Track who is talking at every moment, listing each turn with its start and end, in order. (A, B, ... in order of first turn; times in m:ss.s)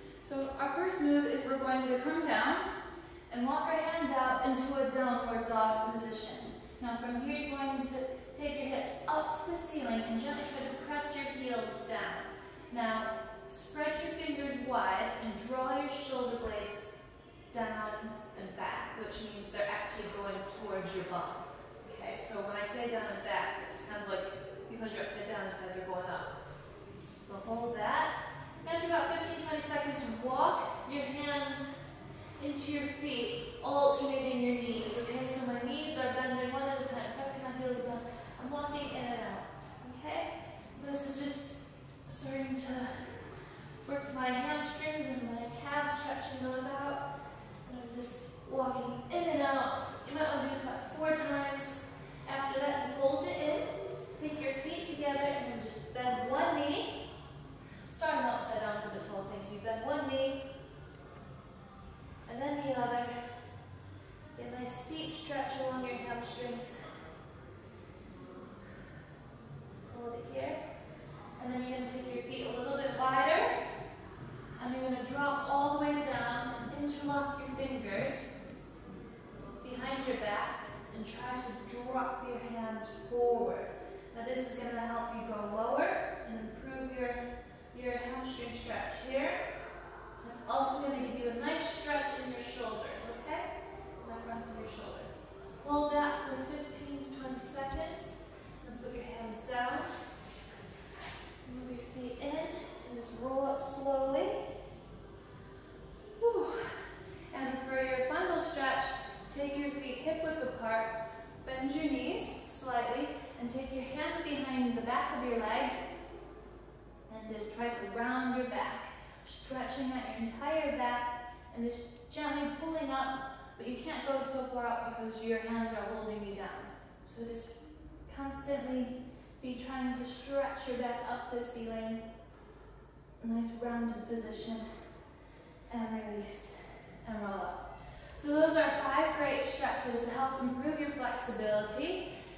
0:00.2-0:02.7 A
0:03.3-0:16.8 A
0:17.5-0:26.3 A
0:27.2-0:31.7 A
0:32.4-0:43.1 A
0:43.8-0:47.0 A
0:47.7-0:57.0 A
0:57.9-1:00.4 A
1:02.2-1:03.3 A
1:04.3-1:06.8 A
1:09.9-1:10.6 A
1:11.4-1:13.5 A
1:14.6-1:18.3 A
1:19.6-1:29.5 A
1:30.2-1:39.9 A
1:41.4-1:44.5 A
1:46.2-1:50.9 A
1:51.4-1:55.8 A
1:57.1-2:12.0 A
2:13.2-2:14.7 A
2:15.7-2:17.6 A
2:18.2-2:22.0 A